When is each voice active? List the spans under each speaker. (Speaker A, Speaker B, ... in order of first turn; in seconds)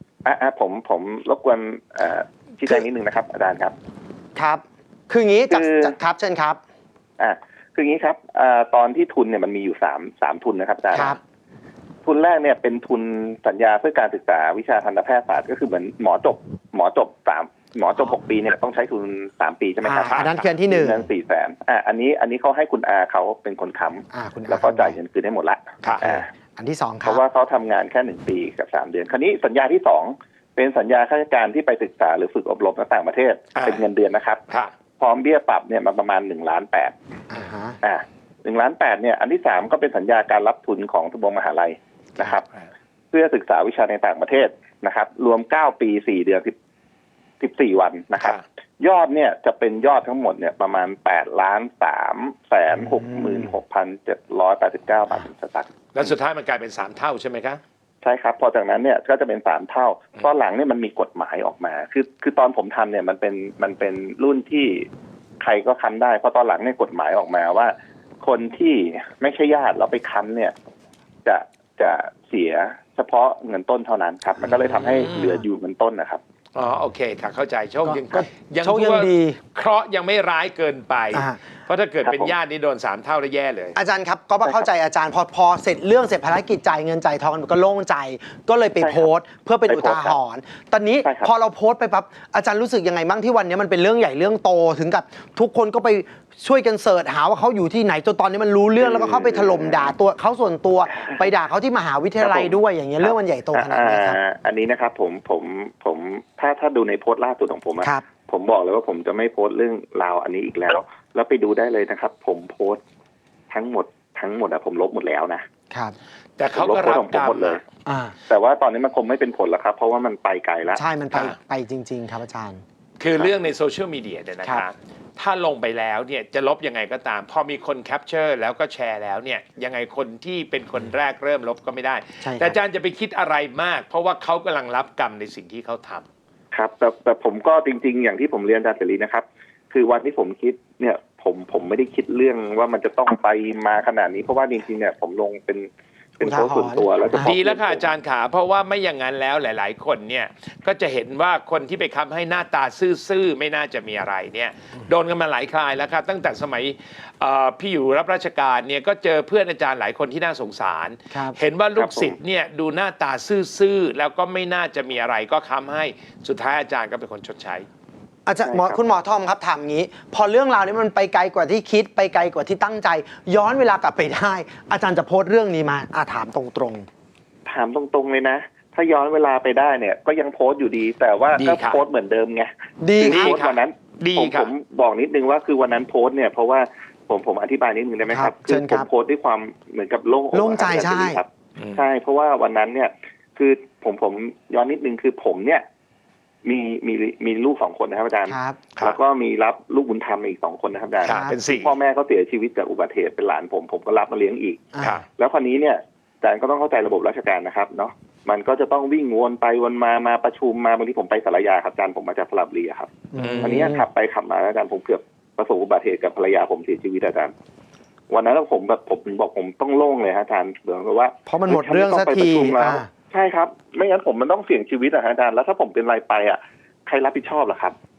Speaker A: 0.2-3.7, 5.5-5.9, 7.2-11.2, 12.0-26.3, 27.0-34.4, 35.0-36.9, 37.8-42.4, 43.1-46.5, 47.4-55.7, 58.0-64.8, 65.4-70.5, 71.2-76.2, 82.0-82.3, 88.8-89.1, 89.7-90.2, 91.0-91.3, 98.8-99.9, 102.2-112.8, 113.5-115.4, 116.5-117.6, 118.3-120.8, 136.5-147.8, 161.8-162.1, 168.4-168.8, 177.5-195.6, 196.4-204.6, 205.2-217.3, 218.1-227.7
Speaker B: 4.3-6.6, 10.9-11.2, 19.8-21.1, 24.1-25.0, 26.6-27.2, 37.3-37.8, 52.8-53.5, 77.8-79.4, 81.1-81.4, 83.7-104.2, 115.7-116.0, 117.8-118.2, 120.8-122.6, 132.2-132.6, 146.2-147.3, 161.1-161.4, 168.2-176.9, 182.8-183.4, 188.1-188.9, 190.3-191.2, 198.3-198.6, 201.0-201.4, 204.7-205.0, 213.1-213.8, 221.3-222.9
Speaker C: 20.0-20.4, 25.8-26.2, 33.5-33.9, 42.2-42.7, 55.9-57.6, 74.5-75.4, 76.5-83.8, 116.4-117.6, 123.0-136.1, 147.2-167.7, 181.3-181.8, 183.0-184.5, 191.6-191.8, 201.0-201.7, 213.2-213.7